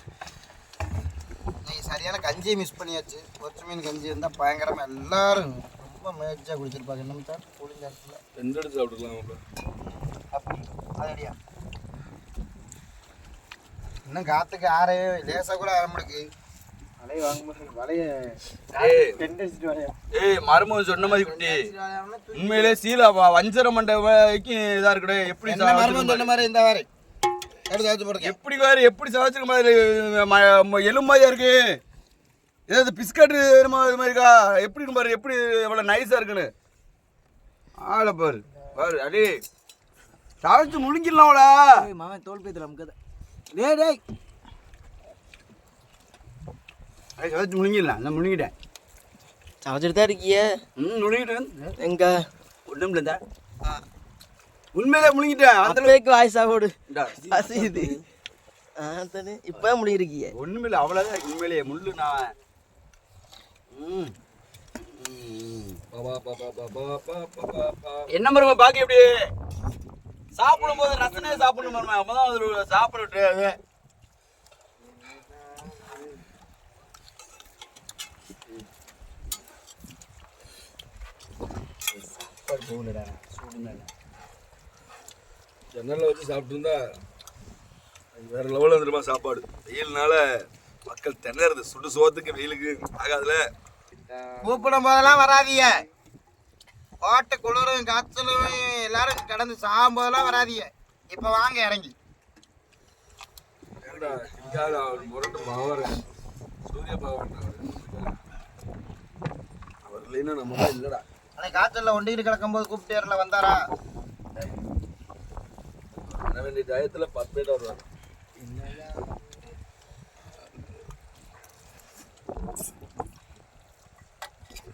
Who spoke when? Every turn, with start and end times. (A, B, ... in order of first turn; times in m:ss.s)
0:01.6-0:08.2 A
0:08.4-0:09.4 B
0:14.1-0:16.2 A
0:17.0-0:20.0 C
0:18.8-0:19.2 D
0:20.1-0:21.7 D
0:21.0-0:22.8 A
0:22.4-0:26.3 D
0:25.4-0:26.9 A
0:27.7-0:28.4 A
0:28.2-0:31.8 D
0:32.7-0:36.5 D
0:37.8-0:39.4 D
0:40.4-0:41.9 D
0:41.8-0:43.0 C
0:43.5-0:44.0 D
0:47.2-0:48.5 D
0:49.6-0:50.5 E
0:50.8-0:51.7 D
0:51.8-0:52.1 E
0:52.7-0:53.2 D
0:54.7-0:55.9 D
0:55.6-0:58.0 E
0:56.9-0:58.0 D
0:58.8-1:00.3 E
1:00.3-1:02.3 D
1:03.7-1:04.1 D
1:04.8-1:05.8 D
1:05.9-1:08.1 B
1:08.1-1:09.3 D
1:10.4-1:13.6 D
1:10.5-1:11.4 B
1:22.5-1:23.9 D
1:25.7-1:26.8 B
1:28.2-1:33.4 B
1:34.4-1:35.8 A
1:37.0-1:41.9 A
1:43.8-1:46.0 B
1:46.7-1:48.2 B
1:49.9-1:51.0 B
1:51.4-1:53.6 A
1:56.2-1:57.8 B